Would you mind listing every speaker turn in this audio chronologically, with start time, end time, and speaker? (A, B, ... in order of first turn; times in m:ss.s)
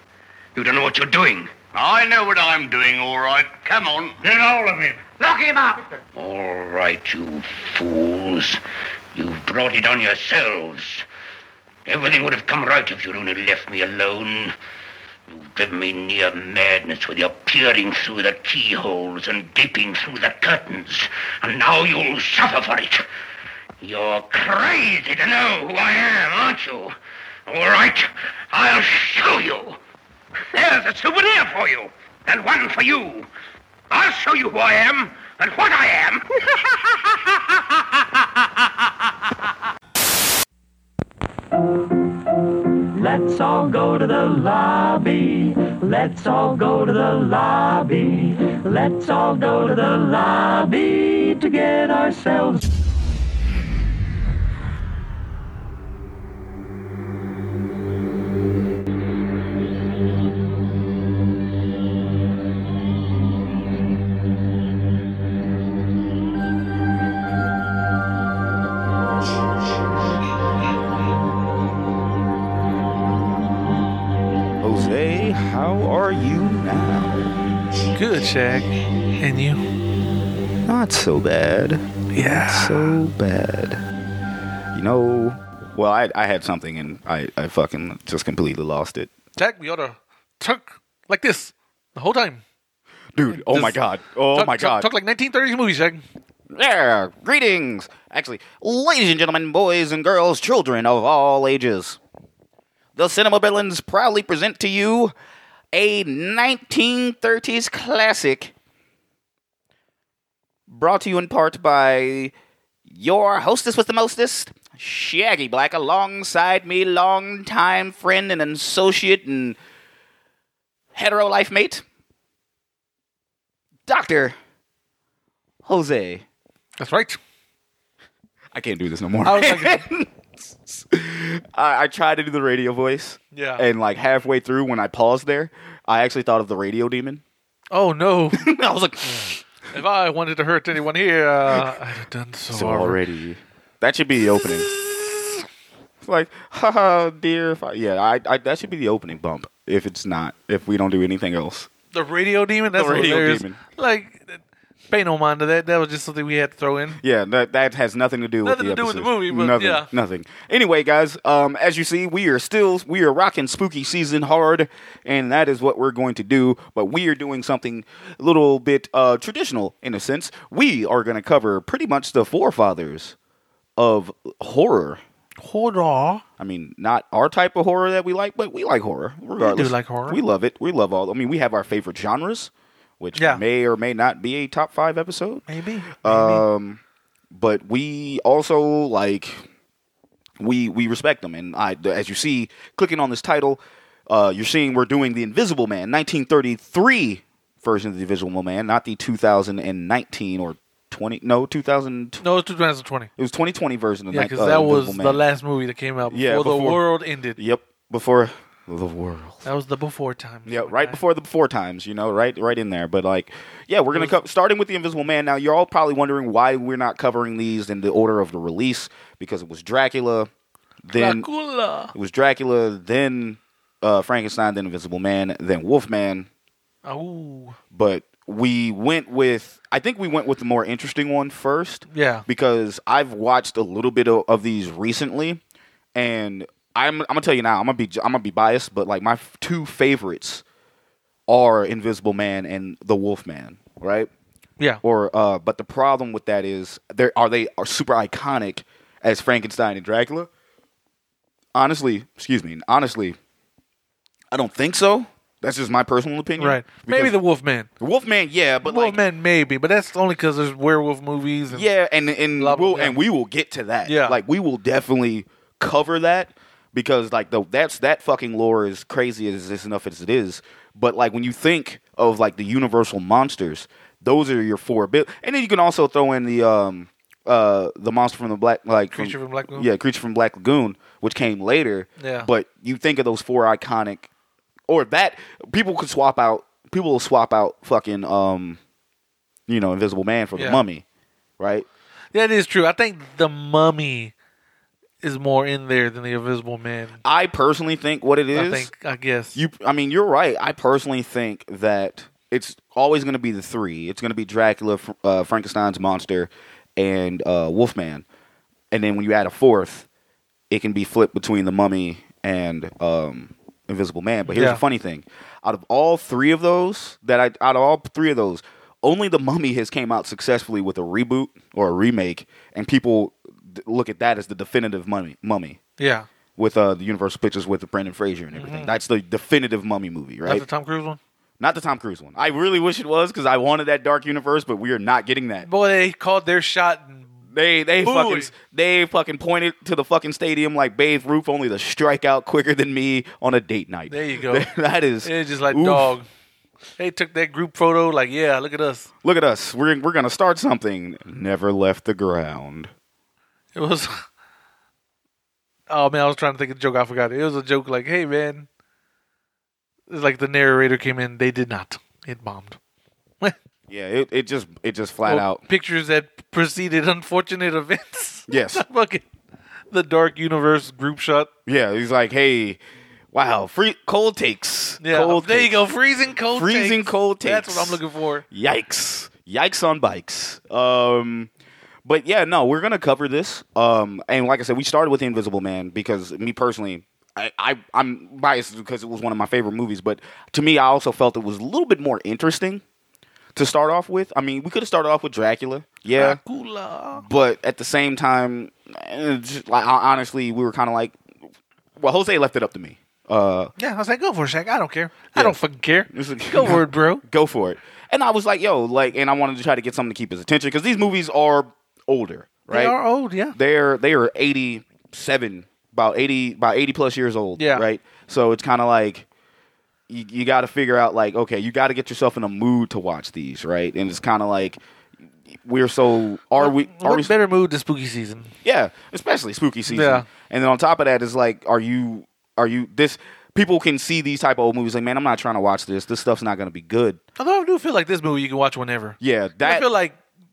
0:00.5-0:01.5 A
0:01.7-0:05.0 B
0:04.3-0:08.6 A
0:09.1-0:11.0 A
0:11.9-0:14.5 A
0:15.3-0:23.0 A
0:23.8-0:27.0 A
0:27.5-0:29.8 A
0:30.5-0:33.3 A
0:33.9-0:38.2 A
0:42.9-0:52.7 C
1:14.6-1:17.3 D
1:17.9-1:19.6 E
1:20.6-1:23.8 D
1:22.1-1:23.0 E
1:24.7-1:29.1 D
1:29.4-1:32.4 E
1:33.1-1:34.9 D
1:33.3-1:33.8 E
1:34.3-1:36.0 E
1:36.5-1:42.0 D
1:43.0-1:45.1 D
1:45.7-1:48.5 D
1:50.7-1:52.3 D
1:52.9-1:59.6 D
2:00.9-2:01.8 D
2:03.9-2:04.4 D
2:05.6-2:06.2 D
2:06.8-2:07.2 E
2:08.5-2:17.2 D
2:09.2-2:09.8 E
2:13.3-2:13.6 E
2:17.7-2:18.5 E
2:18.3-2:19.4 D
2:19.0-2:23.0 E
2:22.5-2:25.4 D
2:26.0-2:31.7 D
2:31.9-2:37.0 E
2:32.7-2:33.6 D
2:37.0-2:53.2 D
2:38.4-2:39.9 E
2:53.8-2:55.0 D
2:55.4-2:56.2 E
2:56.4-3:05.4 D
2:59.4-3:00.2 E
3:03.2-3:03.4 E
3:05.5-3:06.4 E
3:06.0-3:06.8 D
3:07.3-3:09.4 D
3:10.4-3:22.2 D
3:22.2-3:23.1 E
3:23.2-3:25.2 D
3:24.1-3:27.4 E
3:26.1-3:26.8 D
3:27.4-3:29.4 D
3:29.4-3:31.0 E
3:30.4-3:40.3 D
3:40.8-3:41.3 D
3:40.9-3:41.9 E
3:41.9-3:46.3 D
3:46.8-3:47.6 E
3:47.7-3:55.4 D
3:51.9-3:52.2 E
3:55.9-4:00.4 D
4:01.3-4:04.1 D
4:04.8-4:10.3 D
4:11.5-4:13.2 D
4:14.3-4:17.1 D
4:16.4-4:17.7 E
4:17.8-4:19.0 D
4:18.6-4:21.7 E
4:21.5-4:44.1 D
4:22.4-4:23.0 E
4:23.8-4:24.2 E
4:38.9-4:39.7 E
4:42.0-4:42.3 E
4:44.7-4:48.6 D
4:49.5-4:50.8 D
4:50.4-4:50.6 E
4:51.4-4:51.7 D
4:52.1-4:54.1 E
4:55.0-4:57.0 E
4:57.0-4:58.7 D
4:58.3-4:59.4 E
4:59.4-5:08.0 D
5:08.7-5:09.9 D
5:10.5-5:25.6 D
5:14.3-5:14.6 E
5:25.8-5:26.1 E
5:26.4-5:30.4 D
5:28.3-5:28.8 E
5:30.2-5:31.0 E
5:31.4-5:35.5 D
5:35.4-5:37.1 E
5:37.3-5:45.9 D
5:37.8-5:38.3 E
5:43.9-5:44.5 E
5:45.0-5:46.1 E
5:46.8-5:48.9 E
5:49.0-5:52.7 D
5:53.5-5:54.0 E
5:55.7-5:58.5 E
5:59.9-6:02.6 E
6:03.7-6:05.4 D
6:05.1-6:09.1 E
6:08.3-6:08.6 D
6:09.7-6:11.3 E
6:11.5-6:12.6 D
6:13.1-6:15.6 D
6:14.8-6:18.2 E
6:16.3-6:17.8 D
6:18.3-6:21.3 D
6:21.8-6:32.6 D
6:33.4-6:36.2 D
6:36.0-6:37.0 E
6:37.0-6:41.0 D
6:41.8-6:43.5 D
6:43.6-6:47.0 E
6:45.9-6:52.8 D
6:52.5-6:53.4 E
6:53.3-6:59.1 D
6:57.4-6:57.6 E
6:59.9-7:04.6 D
7:05.3-7:07.1 D
7:06.4-7:08.3 E
7:08.4-7:17.0 D
7:09.7-7:10.1 E
7:17.2-7:20.0 E
7:19.0-7:19.7 D